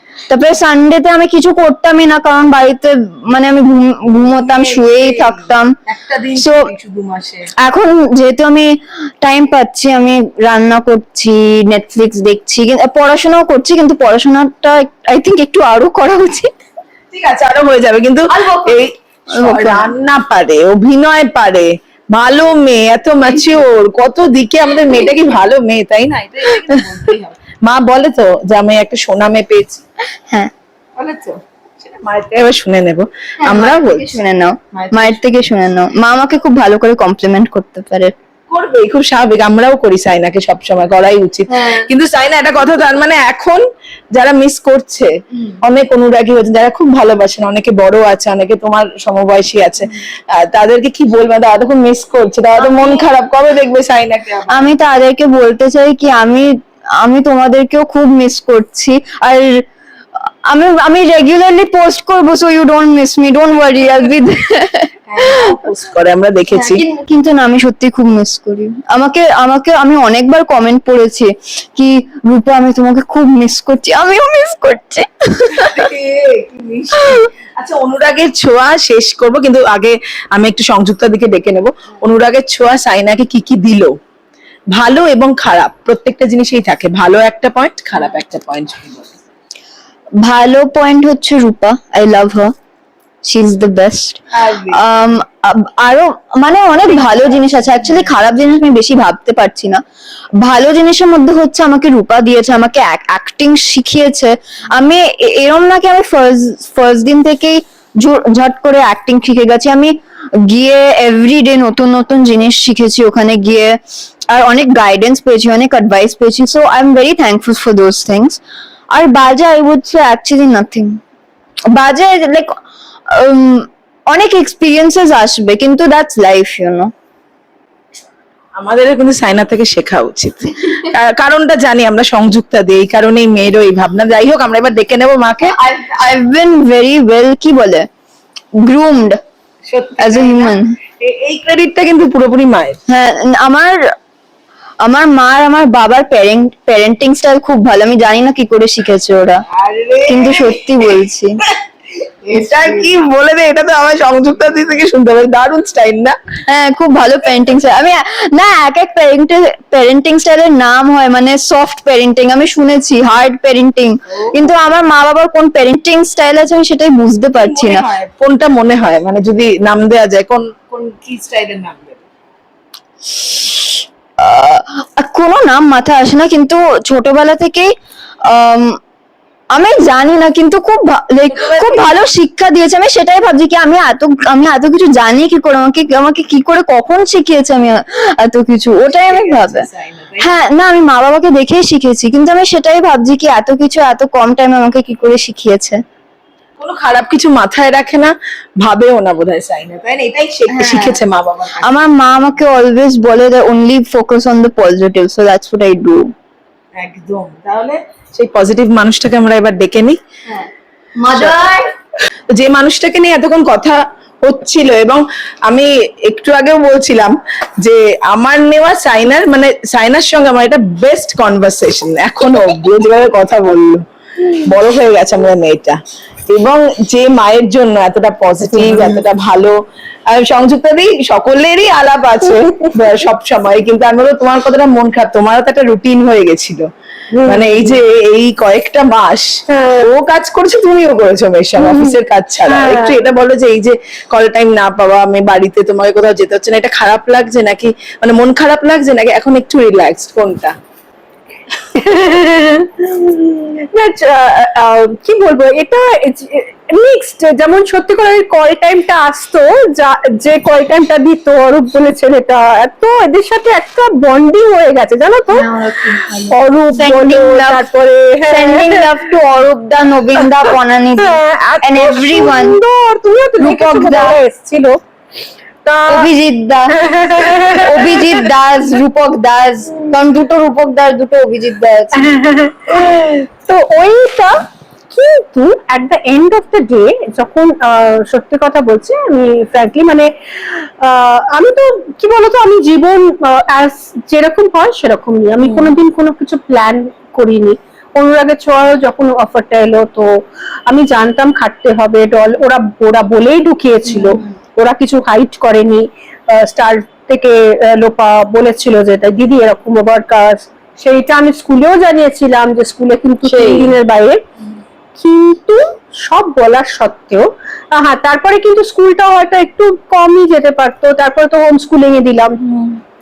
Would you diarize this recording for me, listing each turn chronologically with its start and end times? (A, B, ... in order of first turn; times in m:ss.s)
0:00.3-0:05.8 A
0:04.4-0:07.5 B
0:06.4-0:06.7 A
0:07.6-0:16.5 A
0:17.1-0:29.8 B
0:18.4-0:18.8 A
0:19.3-0:19.9 A
0:31.0-0:34.2 B
0:33.4-0:38.1 A
0:34.7-0:35.2 B
0:38.5-0:43.6 B
0:41.5-0:41.9 A
0:44.1-0:54.7 B
0:54.5-0:59.7 A
1:00.5-1:05.6 A
1:05.1-1:06.8 B
1:06.5-1:15.9 A
1:15.5-1:24.0 B
1:24.8-1:29.2 B
1:30.2-1:32.5 A
1:33.3-1:39.8 A
1:34.3-1:34.9 B
1:37.0-1:38.0 B
1:40.4-1:50.0 A
1:50.5-1:53.8 A
1:54.3-1:58.4 A
1:58.9-2:01.0 A
2:01.7-2:02.6 A
2:03.1-2:06.9 A
2:08.6-2:15.6 B
2:15.4-2:17.9 A
2:18.6-2:19.2 A
2:19.7-2:22.8 B
2:20.0-2:20.8 A
2:22.9-2:23.9 A
2:24.8-2:29.4 A
2:29.5-2:30.7 B
2:30.1-2:31.4 A
2:32.0-2:36.2 B
2:36.5-2:47.8 A
2:47.4-2:52.0 B
2:53.1-2:57.7 A
2:58.2-2:58.8 A
2:59.5-3:09.7 A
3:01.3-3:02.1 B
3:08.9-3:10.4 B
3:10.2-3:15.8 A
3:16.6-3:21.8 B
3:20.5-3:21.0 A
3:21.6-3:26.1 A
3:26.8-3:30.0 B
3:30.3-3:31.7 A
3:31.1-3:31.4 B
3:32.3-3:43.8 B
3:44.4-3:49.6 B
3:48.5-3:49.0 C
3:50.1-3:56.7 B
3:52.3-3:52.8 C
3:57.1-3:57.8 C
3:57.2-4:10.6 B
3:59.5-3:59.9 C
4:01.6-4:02.0 C
4:02.5-4:03.0 C
4:11.8-4:29.1 C
4:25.3-4:27.6 A
4:28.3-4:32.6 A
4:30.2-4:34.8 C
4:33.4-4:34.2 A
4:35.6-4:36.1 C
4:35.9-4:42.2 A
4:36.8-4:38.0 C
4:41.9-5:14.2 C
4:55.4-4:55.7 A
5:03.9-5:04.2 A
5:13.3-5:13.7 B
5:15.0-5:22.4 C